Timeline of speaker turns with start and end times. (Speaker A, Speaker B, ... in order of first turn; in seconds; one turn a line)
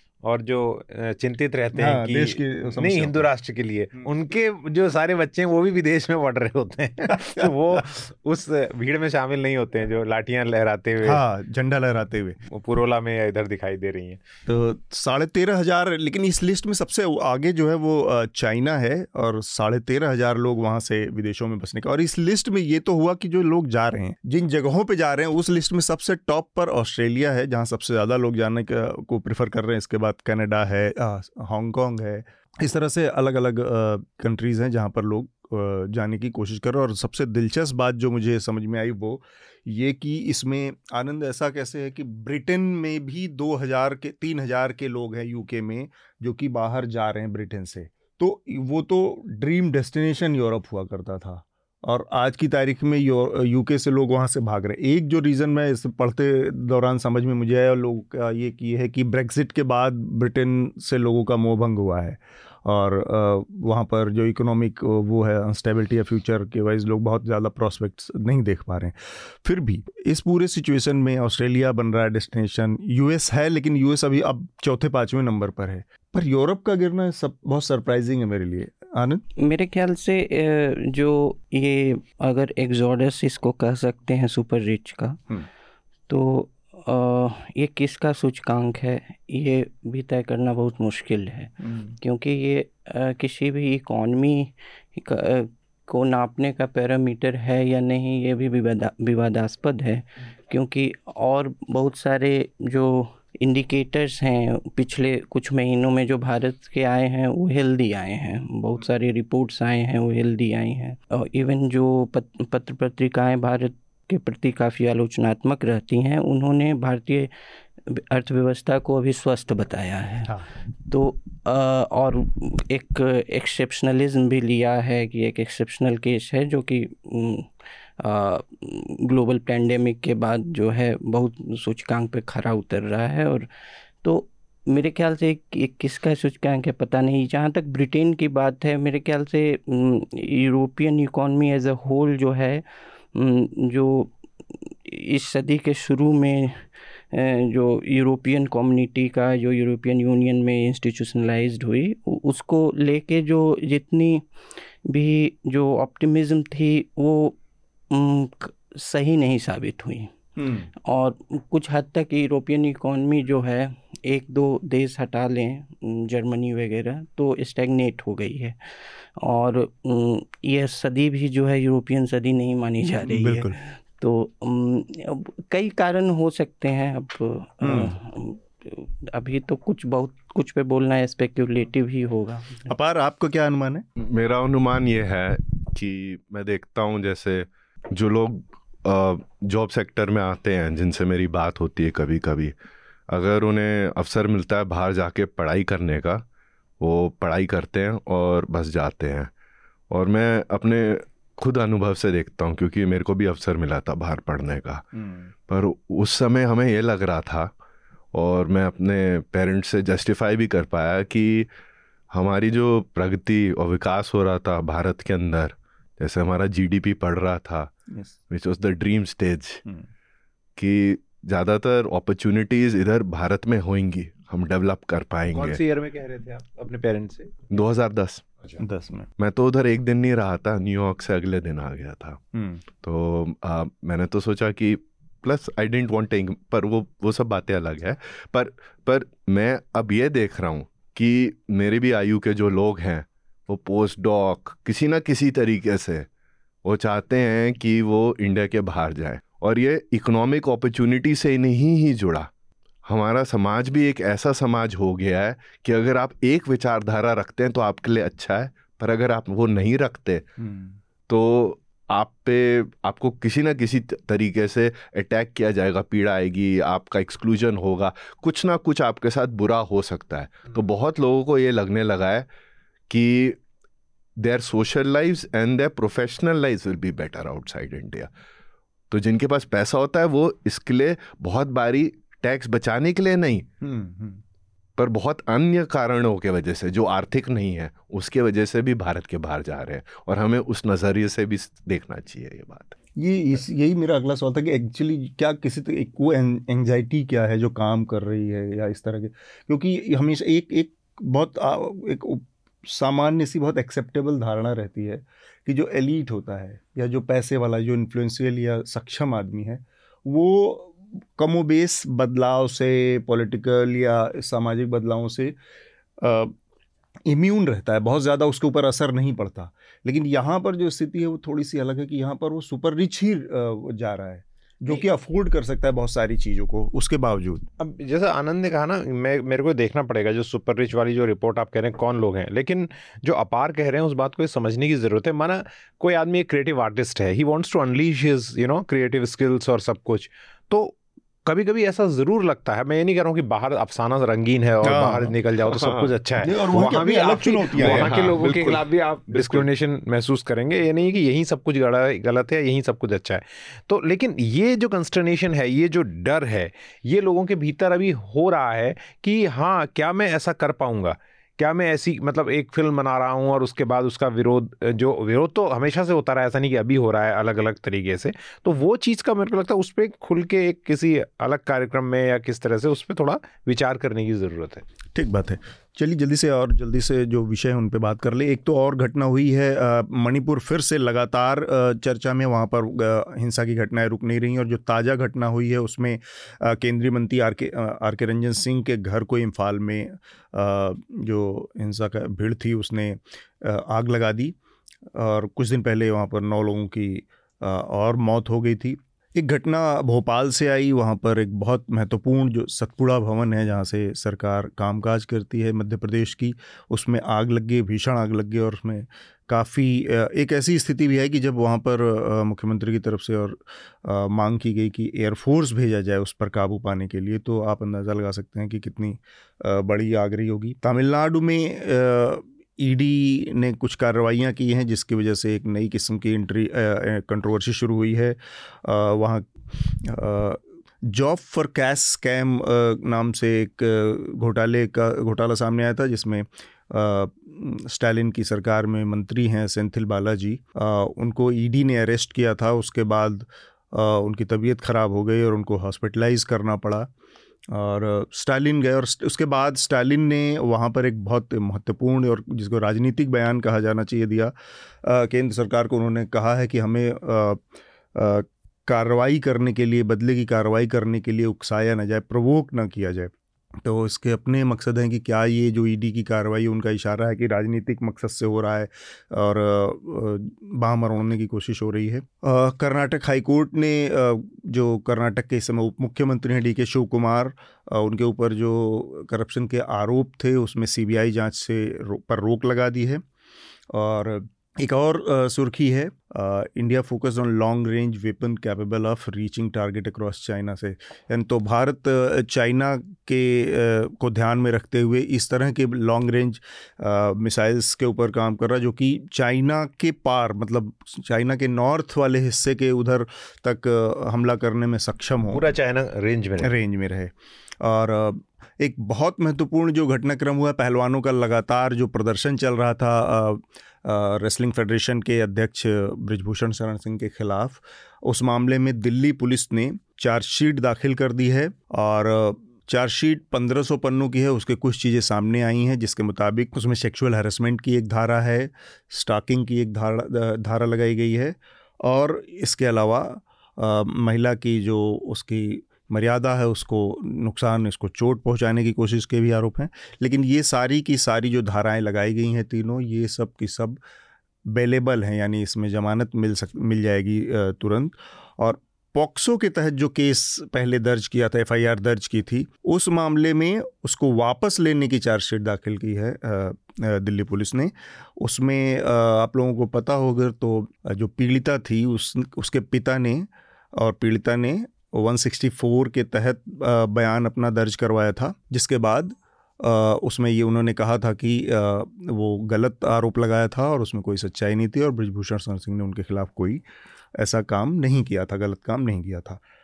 Speaker A: 0.2-11.2
Speaker B: 1.7-3.3
Speaker B: 11.0-12.4
Speaker A: 12.5-14.2
Speaker B: 14.5-79.2
Speaker C: 79.4-85.2
Speaker C: 86.1-117.3
Speaker B: 91.6-92.0
Speaker C: 117.9-133.5
Speaker C: 134.0-154.2
Speaker C: 154.8-157.4
Speaker C: 157.9-160.1
Speaker B: 160.4-160.7
Speaker C: 160.9-182.6
Speaker B: 173.1-173.6
Speaker B: 177.6-177.9
Speaker B: 182.7-183.8
Speaker D: 184.0-192.5
Speaker D: 193.1-196.2
Speaker D: 196.8-199.3
Speaker D: 199.9-204.9
Speaker B: 204.9-205.3
Speaker D: 205.5-207.5
Speaker D: 208.1-211.5
Speaker D: 212.1-217.7
Speaker D: 218.3-219.6
Speaker D: 220.6-225.6
Speaker A: 225.3-227.4
Speaker D: 227.5-228.3
Speaker B: 228.6-229.1
Speaker D: 229.2-232.2
Speaker B: 232.3-232.6
Speaker D: 232.8-246.1
Speaker D: 246.7-252.3
Speaker D: 252.9-260.3
Speaker B: 260.4-260.8
Speaker D: 261.1-272.3
Speaker D: 272.9-273.4
Speaker D: 274.2-278.1
Speaker D: 278.9-283.5
Speaker B: 283.6-284.2
Speaker D: 284.8-292.8
Speaker B: 293.0-315.4
Speaker B: 316.0-316.4
Speaker B: 317.1-327.4
Speaker A: 327.6-374.7
Speaker B: 344.6-345.2
Speaker D: 345.5-345.9
Speaker B: 346.2-349.5
Speaker D: 347.6-348.1
Speaker B: 374.9-394.4
Speaker B: 394.9-446.9
Speaker B: 447.5-457.4
Speaker B: 457.9-483.0
Speaker B: 483.7-505.4
Speaker A: 505.3-506.5
Speaker B: 506.4-543.8
Speaker B: 544.5-576.6
Speaker B: 577.2-579.4